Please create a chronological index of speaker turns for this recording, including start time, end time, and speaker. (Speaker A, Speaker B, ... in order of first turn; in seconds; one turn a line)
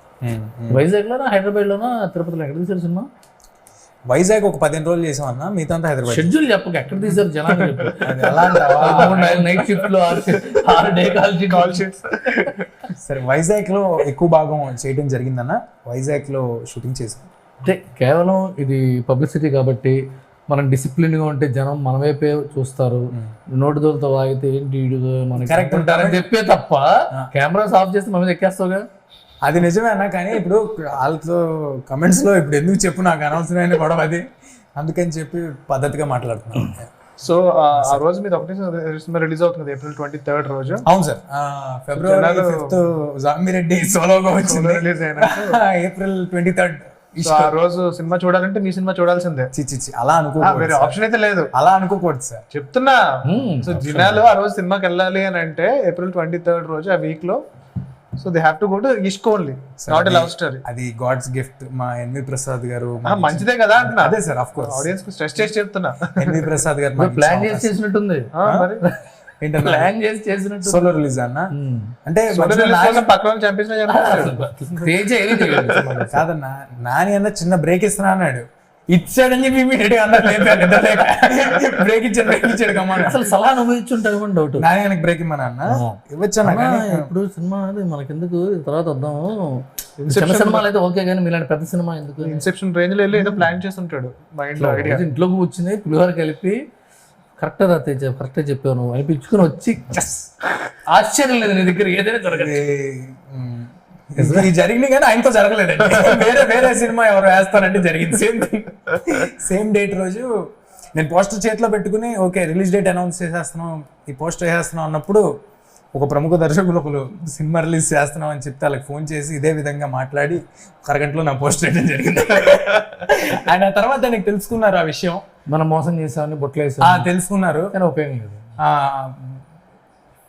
Speaker A: 0.2-0.8
Speaker B: 0.7-3.1
Speaker A: 4.1-6.3
Speaker B: 6.1-11.8
Speaker C: 7.5-7.9
Speaker A: 8.0-9.6
Speaker C: 9.3-10.4
Speaker C: 11.5-12.7
Speaker A: 13.0-17.3
Speaker B: 17.6-20.0
Speaker B: 20.5-28.8
Speaker A: 25.4-26.2
Speaker A: 29.4-34.2
Speaker A: 34.8-36.9
Speaker C: 37.2-40.8
Speaker A: 37.8-38.0
Speaker A: 40.8-47.5
Speaker C: 42.0-42.8
Speaker C: 44.4-45.6
Speaker C: 47.2-49.5
Speaker A: 49.5-51.0
Speaker C: 50.4-51.5
Speaker A: 51.5-52.4
Speaker C: 52.5-57.4
Speaker B: 53.2-53.7
Speaker A: 53.7-54.2
Speaker C: 58.2-60.6
Speaker A: 59.8-64.9
Speaker C: 63.0-66.5
Speaker A: 66.2-67.7
Speaker B: 67.0-68.3
Speaker C: 68.3-68.8
Speaker A: 69.4-69.9
Speaker B: 69.6-70.9
Speaker A: 70.6-71.5
Speaker B: 71.5-71.9
Speaker A: 72.0-73.1
Speaker C: 72.3-76.1
Speaker B: 73.9-76.2
Speaker A: 76.1-83.2
Speaker B: 83.0-84.6
Speaker A: 84.6-87.1
Speaker B: 85.7-92.4
Speaker C: 90.0-90.6
Speaker C: 92.2-95.1
Speaker B: 93.1-93.4
Speaker B: 94.6-96.6
Speaker B: 97.4-100.2
Speaker B: 100.8-102.6
Speaker A: 102.2-110.3
Speaker B: 104.2-104.5
Speaker A: 110.9-115.2
Speaker A: 115.9-125.2
Speaker B: 125.5-127.1
Speaker A: 126.8-127.7
Speaker B: 127.7-128.5
Speaker A: 128.6-129.4